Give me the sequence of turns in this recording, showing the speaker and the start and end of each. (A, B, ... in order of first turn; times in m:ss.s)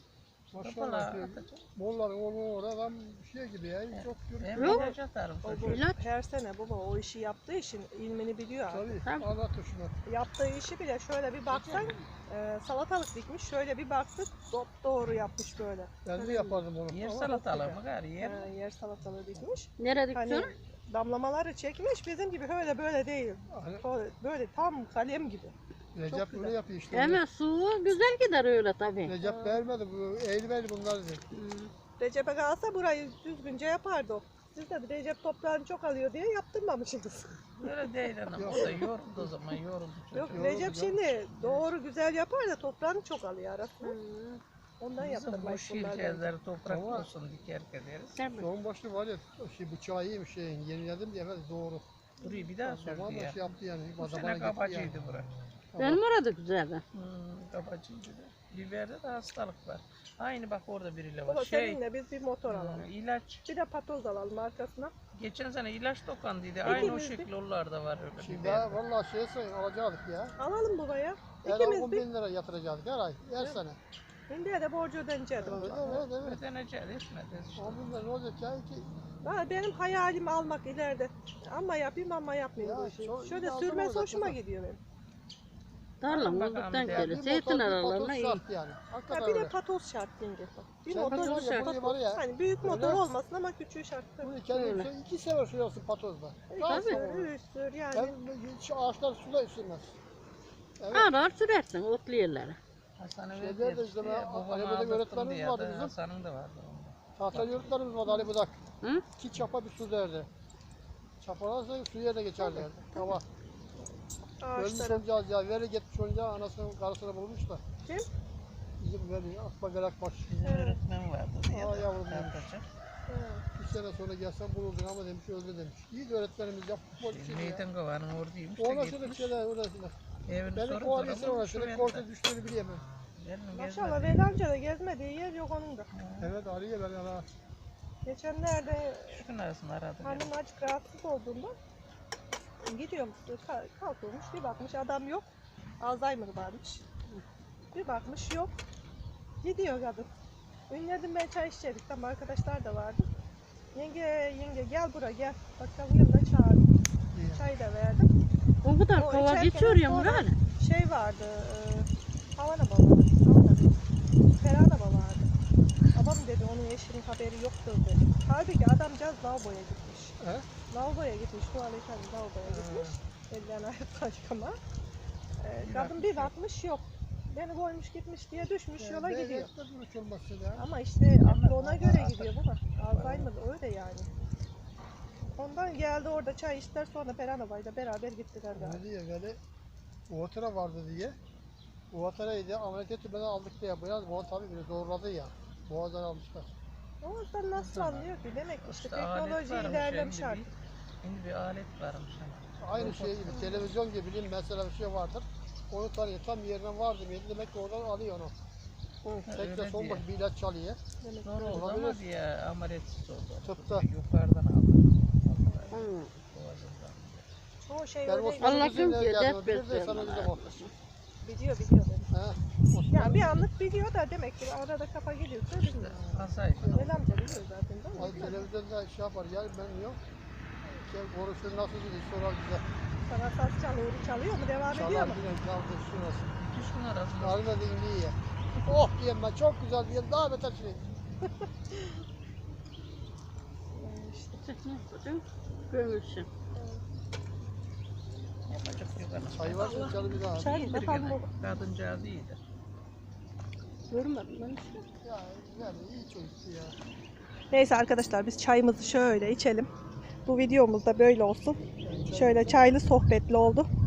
0:00.5-0:04.9 A
0:00.6-0:01.6 B
0:03.9-0:05.9 B
0:04.6-0:04.9 C
0:04.6-0:04.9 D
0:05.4-0:09.0 D
0:05.6-0:06.0 C
0:08.7-0:09.9 A
0:10.0-0:16.6 D
0:11.5-0:12.1 B
0:16.0-0:17.4 A
0:16.9-0:18.5 B
0:17.2-0:25.5 D
0:19.8-0:20.3 C
0:19.8-0:20.5 B
0:23.5-0:23.8 A
0:25.9-0:27.2 A
0:26.2-0:26.5 D
0:26.9-0:29.1 B
0:27.1-0:28.9 C
0:29.0-0:31.2 A
0:29.2-0:29.6 D
0:31.4-0:31.7 B
0:32.0-0:37.4 D
0:37.6-0:40.5 B
0:38.3-0:38.9 A
0:40.1-0:43.9 D
0:40.3-0:41.0 A
0:41.4-0:41.6 B
0:43.8-0:44.4 B
0:44.8-0:46.3 D
0:45.0-0:48.5 B
0:46.6-0:47.1 A
0:48.4-0:51.8 A
0:52.2-1:01.8 B
0:52.6-0:55.1 A
0:55.7-0:56.0 A
0:56.2-0:56.5 C
1:01.2-1:02.9 D
1:02.5-1:03.4 B
1:03.5-1:04.9 D
1:05.1-1:08.8 B
1:06.6-1:07.3 D
1:08.2-1:10.3 A
1:10.4-1:12.0 D
1:11.4-1:13.8 A
1:14.3-1:16.0 D
1:15.4-1:16.4 A
1:16.1-1:17.8 B
1:17.6-1:18.9 A
1:19.2-1:24.8 D
1:22.6-1:24.4 A
1:26.0-1:28.1 C
1:26.0-1:28.4 B
1:26.8-1:29.5 A
1:29.1-1:34.3 D
1:30.9-1:33.1 A
1:31.0-1:31.8 B
1:34.2-1:37.3 A
1:34.5-1:34.9 B
1:36.5-1:38.1 D
1:36.7-1:37.0 B
1:37.9-1:40.0 A
1:40.8-1:41.1 A
1:40.9-1:47.7 B
1:41.1-1:41.6 C
1:42.1-1:42.6 C
1:43.3-1:45.9 A
1:47.1-1:48.6 A
1:49.2-1:50.3 A
1:51.2-1:53.2 A
1:52.4-1:53.1 D
1:54.4-1:55.0 D
1:54.6-1:57.6 A
1:58.8-2:00.3 A
2:00.3-2:02.6 B
2:00.4-2:00.8 D
2:01.5-2:02.5 A
2:03.1-2:03.4 D
2:03.5-2:07.6 A
2:07.0-2:09.4 B
2:08.6-2:10.0 A
2:10.2-2:12.1 B
2:10.5-2:12.9 A
2:13.2-2:14.4 B
2:13.5-2:15.9 D
2:15.9-2:16.3 B
2:16.2-2:17.2 A
2:18.0-2:19.2 D
2:19.1-2:20.3 B
2:20.0-2:21.5 D
2:22.6-2:25.2 D
2:25.8-2:26.8 D
2:27.7-2:28.5 D
2:29.4-2:30.1 D
2:30.7-2:33.1 D
2:33.7-2:36.6 D
2:37.1-2:37.4 A
2:37.3-2:38.1 D
2:38.6-2:40.0 C
2:38.9-2:40.4 B
2:39.0-2:43.8 D
2:44.4-2:45.3 D
2:45.9-2:50.2 D
2:50.2-2:50.5 A
2:50.7-2:54.6 D
2:52.5-2:52.9 A
2:55.4-2:59.5 D
2:55.6-2:56.3 B
2:58.8-3:00.6 A
3:00.6-3:04.1 D
3:01.2-3:03.3 B
3:05.3-3:08.8 D
3:08.5-3:09.4 A
3:10.1-3:11.2 A
3:11.9-3:16.5 A
3:17.0-3:20.5 D
3:17.5-3:20.5 B
3:21.0-3:23.7 B
3:22.6-3:28.3 A
3:29.0-3:30.0 B
3:29.3-3:30.8 A
3:31.0-3:31.7 D
3:31.2-3:37.2 B
3:31.5-3:32.0 A
3:33.4-3:33.9 A
3:35.4-3:35.9 D
3:35.7-3:36.1 C
3:37.6-3:38.9 D
3:38.0-3:40.3 A
3:38.4-3:40.7 B
3:38.4-3:40.6 C
3:41.2-3:42.1 D
3:42.1-3:43.5 A
3:42.9-3:48.4 D
3:45.7-3:47.3 B
3:46.5-3:47.3 A
3:48.0-3:50.0 A
3:50.6-3:52.6 A
3:53.1-3:55.2 D
3:54.7-3:56.4 A
3:56.4-3:57.4 B
3:57.2-4:00.8 A
4:03.7-4:04.4 D
4:04.4-4:06.1 C
4:04.6-4:06.3 B
4:06.5-4:06.8 D
4:08.5-4:12.4 B
4:09.3-4:10.6 A
4:09.5-4:11.3 D
4:13.9-4:14.8 B
4:13.9-4:14.8 C
4:15.0-4:16.8 A
4:17.5-4:19.7 D
4:20.2-4:21.6 D
4:21.8-4:22.8 A
4:22.1-4:23.7 D